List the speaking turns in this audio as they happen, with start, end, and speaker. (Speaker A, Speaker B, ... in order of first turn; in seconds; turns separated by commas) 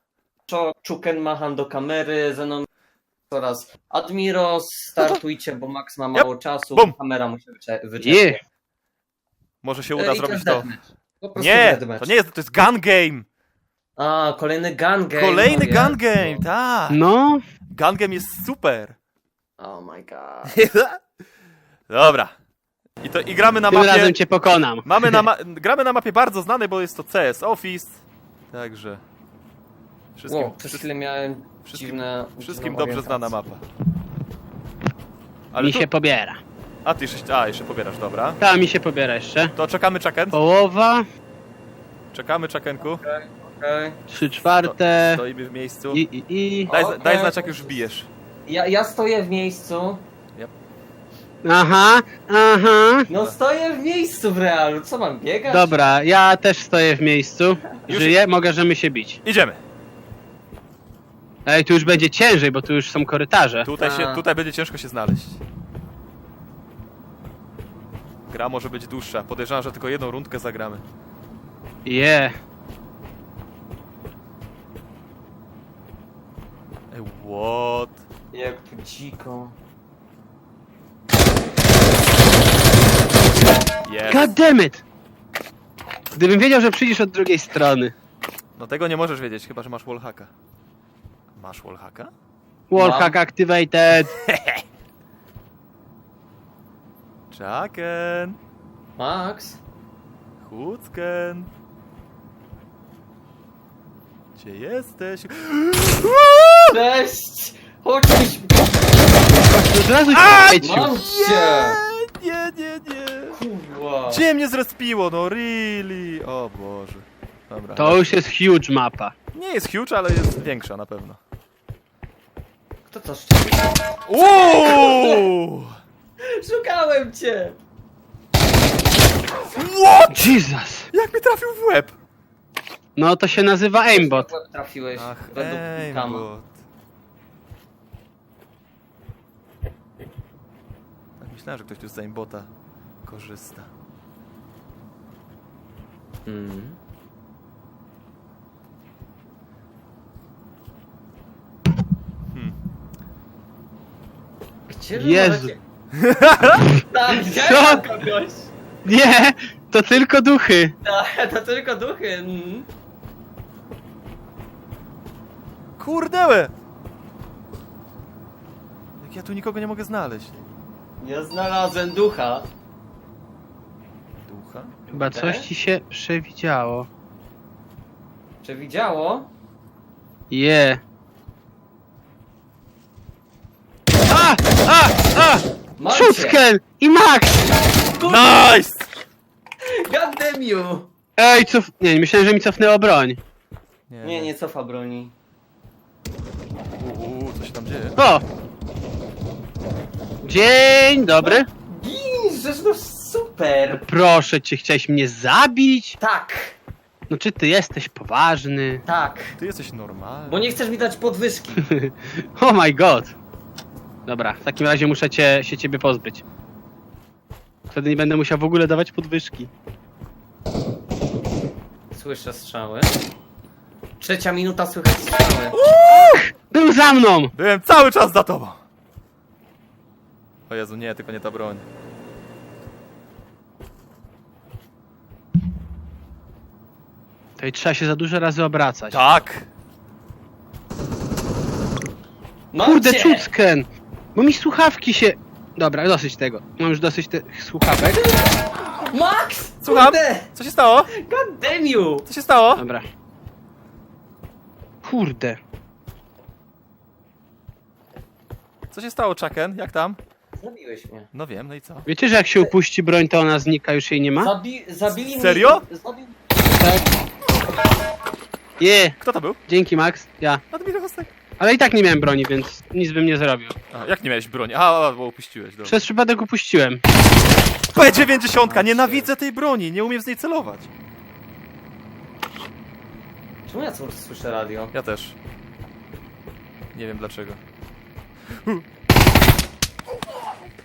Speaker A: 0.5-2.7, Speaker A: 3.3-8.4, Speaker B: 6.1-6.9, Speaker C: 8.0-8.4, Speaker B: 9.6-10.7, Speaker A: 9.9-12.1, Speaker B: 11.3-13.2, Speaker A: 14.0-16.4, Speaker B: 15.1-17.0, Speaker C: 16.9-17.4, Speaker B: 17.7-18.9, Speaker A: 19.6-20.6, Speaker B: 20.5-21.0, Speaker B: 21.9-22.3, Speaker B: 23.0-24.1, Speaker C: 23.7-25.2, Speaker B: 24.8-29.0, Speaker B: 30.1-30.9, Speaker A: 30.3-33.3, Speaker B: 31.6-33.6, Speaker B: 35.5-35.9, Speaker C: 35.6-36.4, Speaker B: 36.8-38.4, Speaker C: 38.4-39.5, Speaker B: 39.5-40.4, Speaker C: 40.3-41.0, Speaker B: 42.1-43.0, Speaker A: 42.8-44.0, Speaker C: 44.1-45.2, Speaker B: 44.4-46.0, Speaker C: 45.9-46.7, Speaker B: 46.7-48.1, Speaker A: 46.7-47.8, Speaker A: 48.5-50.0, Speaker C: 51.4-53.1, Speaker A: 53.1-55.9, Speaker C: 55.5-59.2, Speaker B: 57.9-58.2, Speaker B: 59.2-59.6, Speaker C: 61.5-63.7, Speaker B: 63.6-65.4, Speaker A: 63.8-64.2, Speaker B: 68.3-70.8, Speaker C: 71.8-72.3, Speaker B: 76.9-78.0, Speaker A: 78.3-79.5, Speaker B: 83.8-84.3, Speaker C: 84.1-84.8, Speaker C: 86.1-87.9, Speaker B: 88.5-90.3, Speaker B: 91.3-92.1, Speaker C: 92.7-94.1, Speaker A: 92.7-93.2, Speaker B: 94.0-94.6, Speaker B: 97.3-98.4, Speaker A: 99.0-99.6, Speaker B: 100.4-101.5, Speaker B: 104.4-106.7, Speaker A: 106.7-108.8, Speaker C: 109.4-111.0, Speaker B: 110.1-113.4, Speaker A: 110.6-111.8, Speaker A: 113.3-114.2, Speaker B: 114.1-118.1, Speaker C: 117.8-119.1, Speaker B: 119.3-121.2, Speaker A: 122.9-125.3, Speaker B: 124.1-125.7, Speaker A: 126.2-127.6, Speaker B: 129.5-130.4, Speaker C: 130.1-130.9, Speaker B: 130.9-131.9, Speaker C: 132.9-134.3, Speaker A: 133.9-136.2, Speaker B: 134.9-136.5, Speaker B: 141.2-142.5, Speaker B: 143.0-143.7, Speaker A: 146.2-146.8, Speaker A: 154.7-155.6, Speaker C: 154.9-155.5, Speaker B: 156.0-156.7, Speaker C: 156.8-157.9, Speaker A: 156.8-158.5, Speaker C: 158.8-160.7, Speaker A: 160.8-162.7, Speaker B: 165.8-166.5, Speaker B: 169.0-170.4, Speaker A: 171.0-172.5, Speaker B: 174.2-174.7, Speaker A: 174.9-175.5, Speaker C: 174.9-176.9, Speaker A: 178.4-179.3, Speaker C: 180.3-180.8, Speaker C: 184.1-187.5, Speaker A: 185.8-186.4, Speaker A: 187.9-188.4, Speaker B: 188.0-188.9, Speaker A: 189.6-190.9, Speaker C: 191.2-193.2, Speaker B: 193.9-194.3, Speaker A: 194.0-195.1, Speaker B: 196.8-197.9, Speaker C: 198.0-198.2, Speaker C: 200.2-201.5, Speaker A: 201.2-203.8, Speaker C: 203.7-206.0, Speaker A: 206.0-206.5, Speaker C: 207.1-208.8, Speaker A: 208.8-209.3, Speaker B: 209.4-210.6, Speaker A: 210.3-211.6, Speaker C: 211.7-213.1, Speaker C: 214.1-216.2, Speaker C: 217.7-219.5, Speaker A: 221.9-223.0, Speaker A: 224.0-225.6, Speaker B: 225.5-226.3, Speaker C: 226.4-227.3, Speaker B: 227.3-228.6, Speaker B: 230.5-231.6, Speaker C: 237.4-239.0, Speaker B: 238.9-239.5, Speaker A: 242.5-243.3, Speaker C: 242.6-248.0, Speaker A: 247.9-250.3, Speaker B: 249.6-250.9, Speaker A: 250.9-252.1, Speaker B: 252.1-252.6, Speaker C: 252.6-252.8, Speaker C: 254.8-255.4, Speaker B: 258.7-260.0, Speaker A: 260.4-261.1, Speaker B: 261.1-261.8, Speaker C: 261.9-264.3, Speaker A: 264.2-266.4, Speaker B: 265.0-265.6, Speaker C: 266.6-266.9, Speaker C: 268.6-268.9, Speaker B: 269.0-269.4, Speaker C: 269.5-270.4, Speaker B: 270.5-271.1, Speaker C: 271.4-273.5, Speaker B: 273.7-275.8, Speaker C: 275.6-276.8, Speaker B: 277.7-280.7, Speaker A: 278.4-279.0, Speaker A: 283.5-284.7, Speaker B: 284.7-285.1, Speaker B: 286.7-287.4